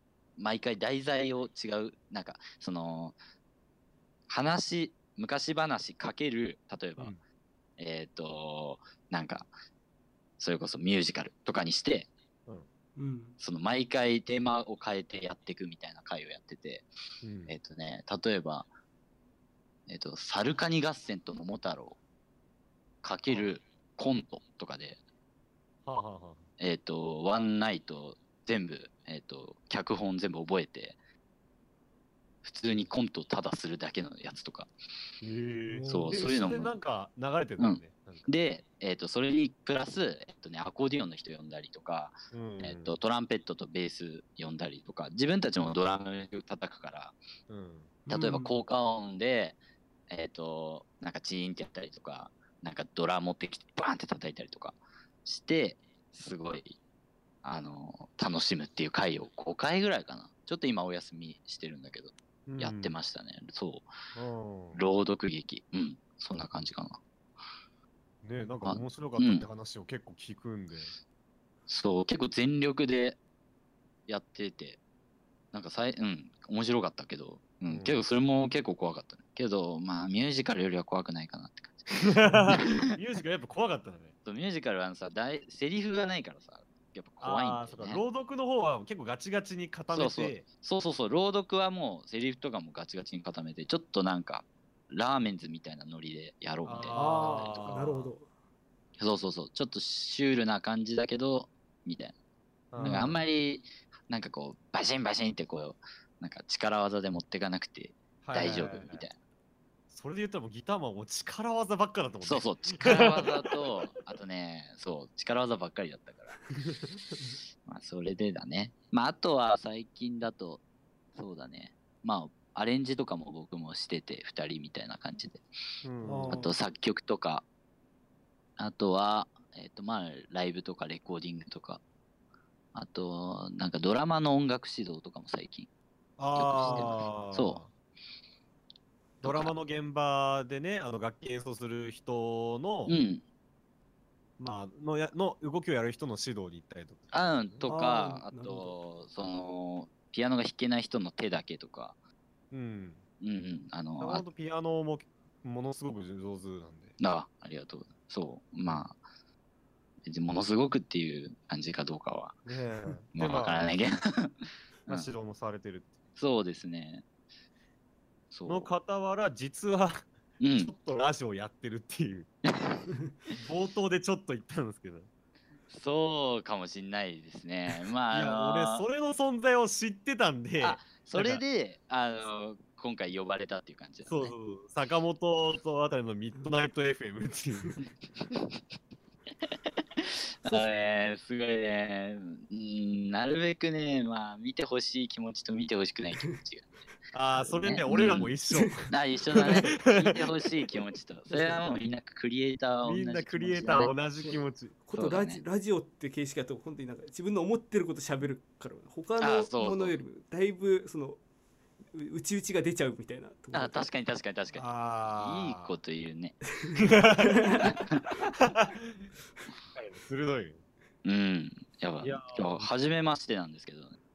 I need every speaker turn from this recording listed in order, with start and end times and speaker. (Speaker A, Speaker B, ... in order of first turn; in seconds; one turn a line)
Speaker A: 0.4-3.2
Speaker A: 4.3-7.1
Speaker A: 7.8-9.5
Speaker A: 10.4-12.1
Speaker B: 13.0-13.4
Speaker A: 13.4-16.9
Speaker C: 17.2-17.6
Speaker A: 17.5-18.7
Speaker A: 19.9-22.0
Speaker A: 23.0-25.0
Speaker C: 25.9-26.4
Speaker A: 26.6-31.0
Speaker A: 32.4-34.7
Speaker C: 35.2-38.3
Speaker B: 35.7-36.2
Speaker A: 35.9-36.8
Speaker A: 37.6-47.2
Speaker C: 42.3-43.0
Speaker C: 47.5-48.0
Speaker B: 48.1-48.5
Speaker A: 48.1-56.8
Speaker A: 57.4-63.9
Speaker C: 62.5-62.9
Speaker C: 64.2-64.8
Speaker A: 64.7-67.0
Speaker C: 68.2-70.9
Speaker A: 68.7-69.5
Speaker A: 71.7-73.2
Speaker A: 74.1-74.8
Speaker A: 75.5-82.8
Speaker C: 77.7-78.0
Speaker C: 82.0-84.1
Speaker A: 84.3-88.0
Speaker C: 87.2-90.5
Speaker A: 89.9-97.9
Speaker C: 96.6-98.1
Speaker B: 97.0-98.3
Speaker A: 99.0-102.2
Speaker C: 102.7-103.2
Speaker A: 102.8-109.2
Speaker C: 108.2-109.0
Speaker C: 109.9-113.6
Speaker A: 112.2-116.4
Speaker A: 117.7-120.6
Speaker A: 121.2-125.5
Speaker C: 125.8-126.5
Speaker B: 126.0-126.5
Speaker A: 126.3-127.5
Speaker A: 128.6-131.8
Speaker A: 132.7-135.7
Speaker C: 136.2-137.7
Speaker A: 136.3-137.6
Speaker B: 136.6-136.9
Speaker C: 139.2-143.0
Speaker A: 139.2-139.5
Speaker A: 142.9-143.2
Speaker C: 144.4-147.7
Speaker A: 147.1-152.0
Speaker B: 147.7-148.8
Speaker C: 152.5-153.0
Speaker A: 153.2-154.2
Speaker C: 154.0-156.9
Speaker A: 157.0-159.0
Speaker A: 160.1-162.4
Speaker C: 162.5-163.7
Speaker A: 163.2-165.1
Speaker C: 164.9-166.0
Speaker A: 166.2-167.0
Speaker A: 168.3-168.7
Speaker C: 168.5-172.3
Speaker A: 170.4-170.7
Speaker A: 172.5-173.4
Speaker C: 173.4-175.1
Speaker A: 175.7-178.8
Speaker C: 178.1-181.4
Speaker A: 180.6-184.3
Speaker C: 184.1-187.8
Speaker A: 190.0-196.8
Speaker C: 197.1-200.2
Speaker A: 197.4-198.3
Speaker B: 198.5-198.9
Speaker A: 198.9-203.9
Speaker B: 199.4-199.7
Speaker B: 201.3-201.6
Speaker C: 202.8-204.8
Speaker B: 204.8-211.2
Speaker A: 204.9-205.4
Speaker A: 209.2-210.0
Speaker B: 211.9-213.8
Speaker A: 213.5-216.4
Speaker C: 214.6-215.8
Speaker B: 216.6-217.8
Speaker C: 216.9-217.7
Speaker A: 217.5-218.1
Speaker C: 218.4-219.1
Speaker C: 219.7-220.6
Speaker A: 221.0-224.0
Speaker C: 222.0-222.7